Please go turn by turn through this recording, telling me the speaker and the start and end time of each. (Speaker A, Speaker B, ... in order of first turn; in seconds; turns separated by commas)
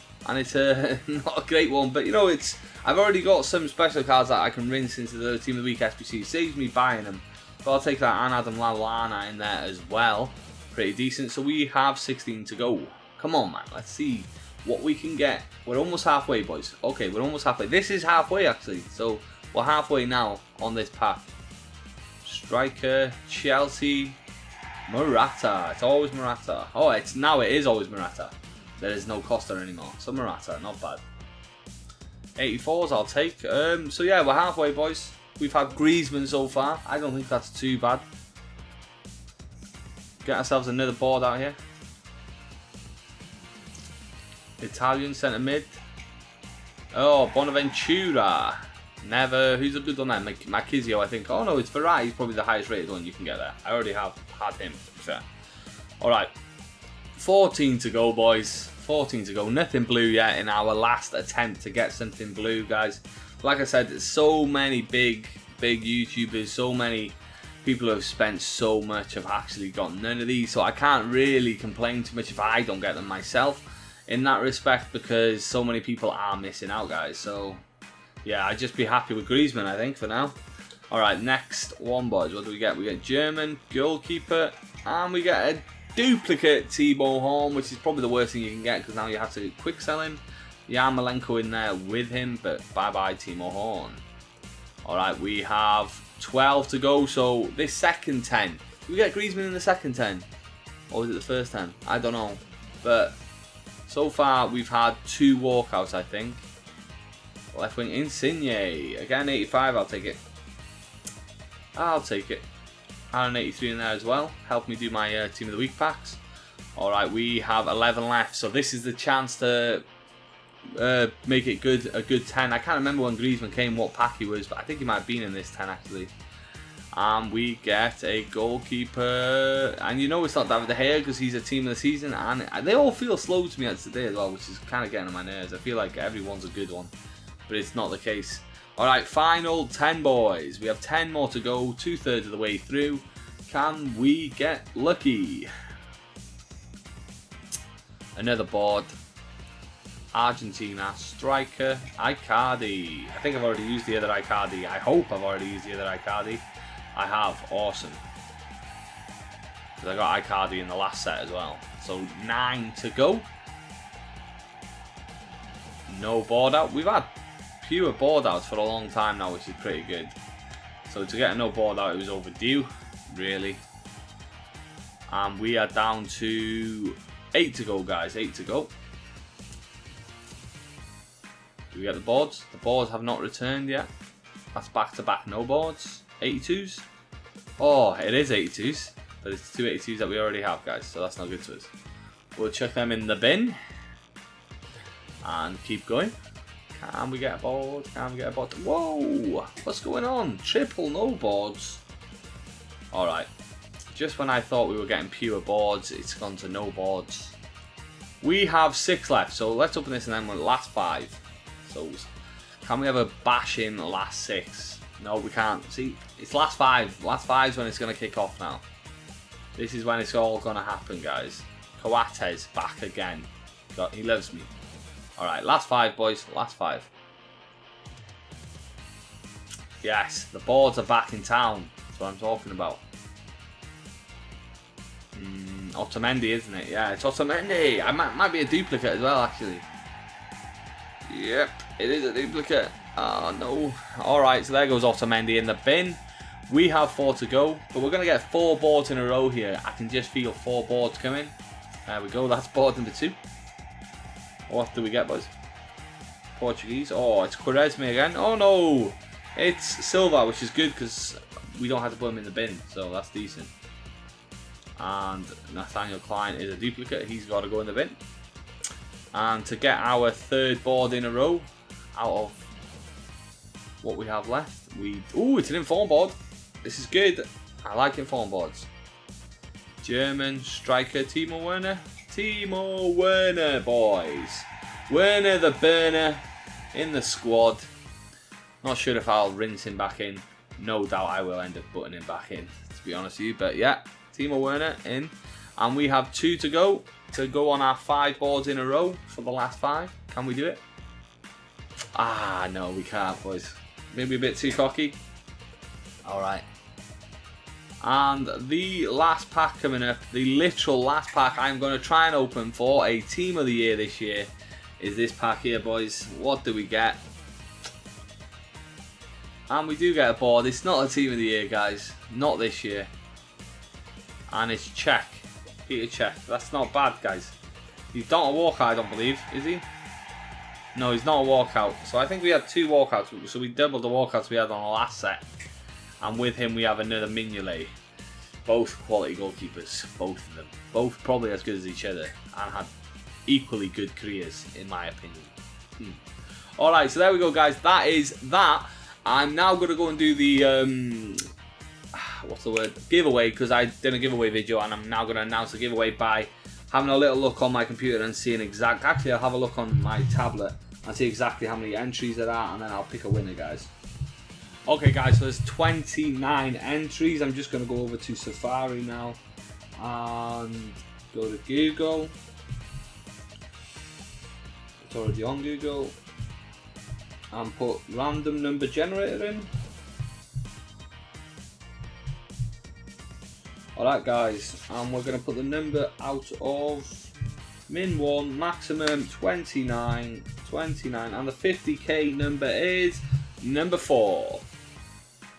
Speaker A: 0.2-21.3, Speaker A: 22.2-24.2, Speaker A: 24.9-31.0, Speaker A: 32.4-38.0, Speaker A: 40.2-41.6, Speaker A: 44.6-45.8, Speaker A: 46.9-55.2, Speaker A: 56.0-56.3, Speaker A: 57.1-77.6, Speaker A: 78.2-80.4, Speaker A: 80.9-94.0, Speaker A: 94.8-100.3, Speaker A: 100.9-103.2, Speaker A: 103.9-106.5, Speaker A: 107.5-110.2, Speaker A: 111.7-112.5, Speaker A: 113.1-116.2, Speaker A: 116.8-119.8, Speaker A: 120.7-126.1, Speaker A: 126.9-136.9, Speaker A: 137.5-145.5, Speaker A: 148.2-148.9, Speaker A: 150.1-158.0, Speaker A: 159.8-163.3, Speaker A: 165.9-167.1, Speaker A: 167.6-170.2, Speaker A: 170.8-173.6, Speaker A: 175.1-178.7, Speaker A: 181.7-183.9, Speaker A: 184.5-186.8, Speaker A: 187.6-191.7, Speaker A: 192.3-193.6, Speaker A: 195.2-196.2, Speaker A: 196.7-201.8, Speaker A: 202.9-203.3, Speaker A: 203.9-207.4, Speaker A: 208.2-212.1, Speaker A: 212.6-218.6, Speaker A: 219.6-224.5, Speaker A: 225.2-226.9, Speaker A: 229.8-232.8, Speaker A: 235.1-239.7, Speaker A: 241.1-251.3, Speaker A: 251.9-253.2, Speaker A: 254.5-255.3, Speaker A: 256.3-263.5, Speaker A: 264.8-268.0, Speaker A: 269.1-272.4, Speaker A: 273.8-278.7, Speaker A: 279.8-287.7, Speaker A: 288.6-300.6, Speaker A: 301.9-305.0, Speaker A: 306.0-306.5, Speaker A: 307.8-317.0, Speaker A: 319.5-322.9, Speaker A: 324.3-327.4, Speaker A: 327.9-329.6, Speaker A: 330.7-335.2, Speaker A: 336.0-337.7, Speaker A: 338.4-342.7, Speaker A: 343.3-346.0, Speaker A: 346.6-351.2, Speaker A: 351.9-363.7, Speaker A: 364.7-369.2, Speaker A: 369.8-372.1, Speaker A: 374.8-375.9, Speaker A: 377.3-379.5, Speaker A: 383.8-387.1, Speaker A: 387.7-394.4